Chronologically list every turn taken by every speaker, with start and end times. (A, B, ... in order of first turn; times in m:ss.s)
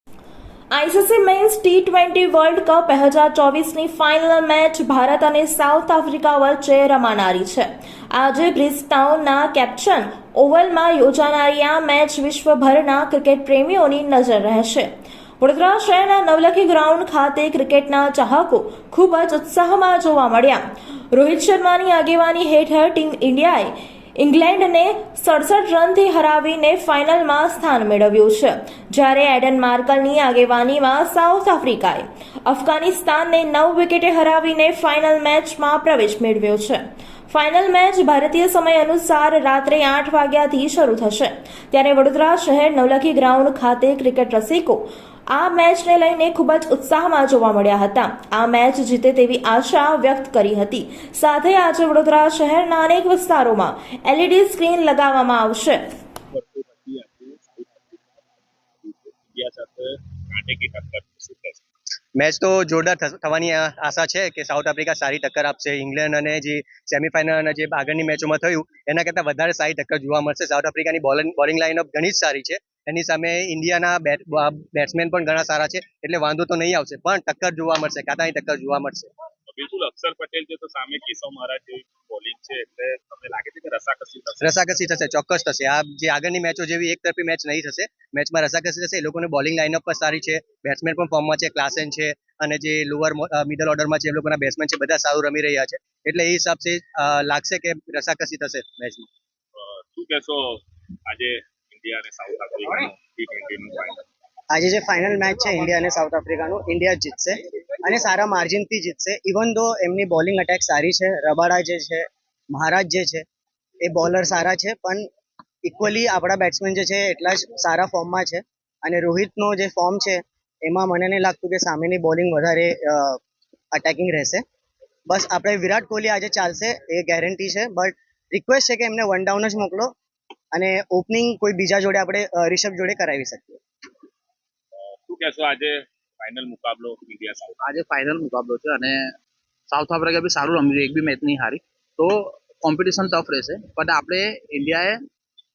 0:00.7-0:55.9 A
0:56.3-1:01.6 B
1:02.2-1:19.1 C
1:19.5-1:24.5 B
1:24.4-1:39.1 C
1:39.6-1:44.1 B
1:44.5-1:53.2 D
1:53.8-1:55.1 D
1:55.6-2:03.2 D
2:03.7-2:04.4 D
2:05.1-2:09.9 D
2:10.5-2:13.6 D
2:15.1-2:17.6 B
2:17.6-2:19.1 E
2:19.7-2:25.0 E